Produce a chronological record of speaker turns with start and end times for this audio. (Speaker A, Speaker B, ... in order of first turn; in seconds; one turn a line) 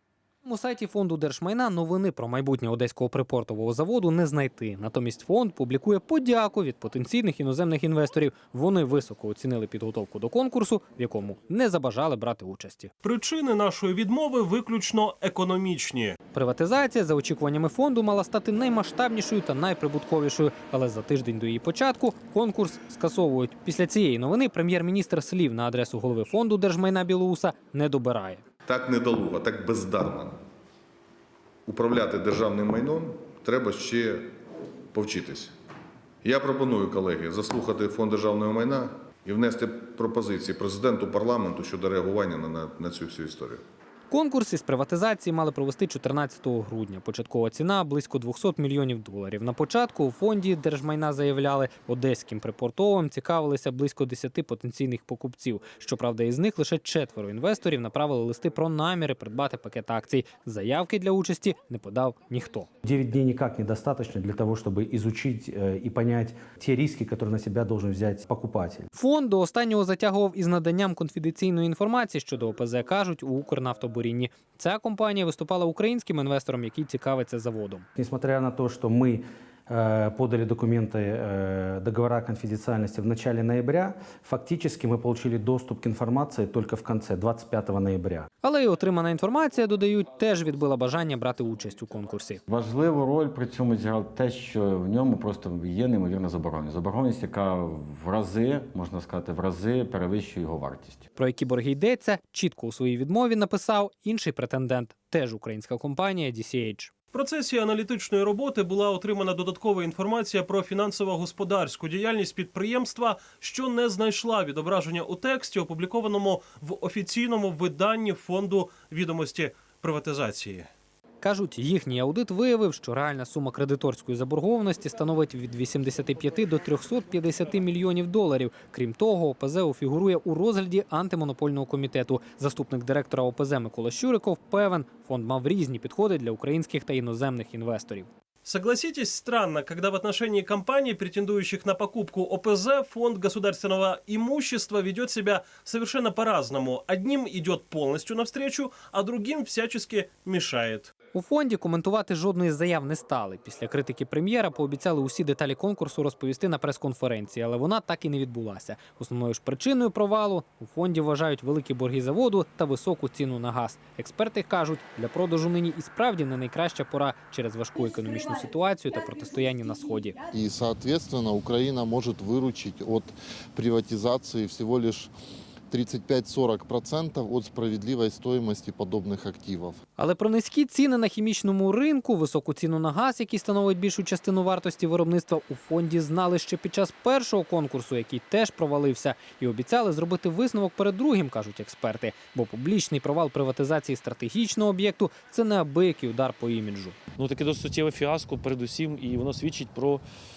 Speaker A: 0.4-12.9
Speaker B: 13.0-16.2
Speaker A: 16.3-28.4
Speaker C: 28.6-30.4
Speaker C: 31.7-34.3
Speaker C: 34.9-35.5
Speaker C: 36.2-43.6
Speaker A: 44.1-62.7
Speaker D: 62.8-68.9
Speaker A: 69.0-77.8
Speaker D: 78.0-88.3
Speaker A: 88.4-92.4
Speaker E: 92.5-101.0
Speaker A: 101.2-106.9
Speaker B: 107.1-120.7
Speaker A: 121.2-138.1
Speaker B: 138.4-150.9
Speaker A: 151.1-170.2
Speaker F: 170.3-175.1
Speaker F: 175.7-179.8
Speaker A: 180.0-197.0
Speaker G: 197.2-200.0